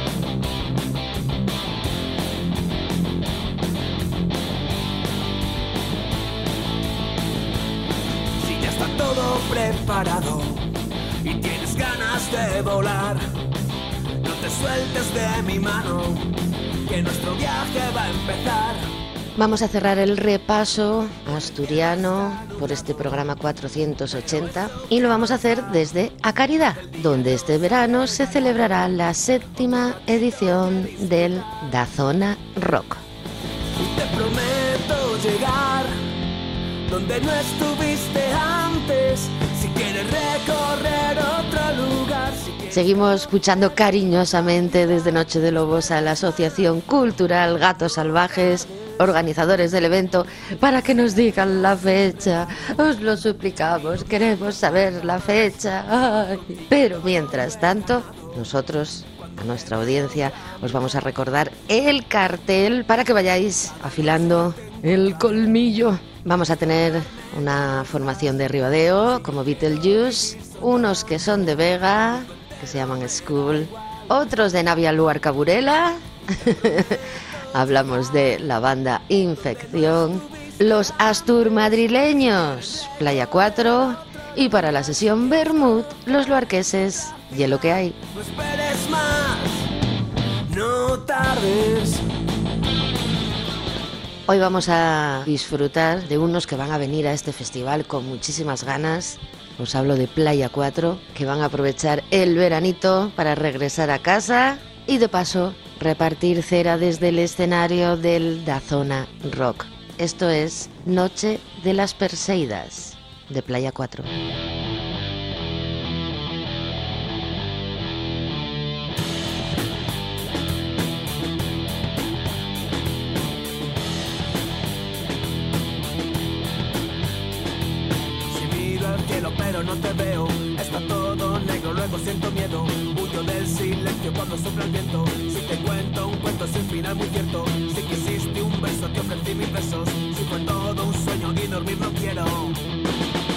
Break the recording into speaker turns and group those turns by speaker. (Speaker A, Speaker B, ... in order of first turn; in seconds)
Speaker A: 8.4-10.7, 11.2-13.2, 14.2-16.3, 16.9-18.9, 33.8-36.0, 36.9-42.7, 88.1-89.6, 90.5-92.0, 128.3-142.6
Speaker B: 19.4-33.0, 42.7-88.0, 94.3-114.1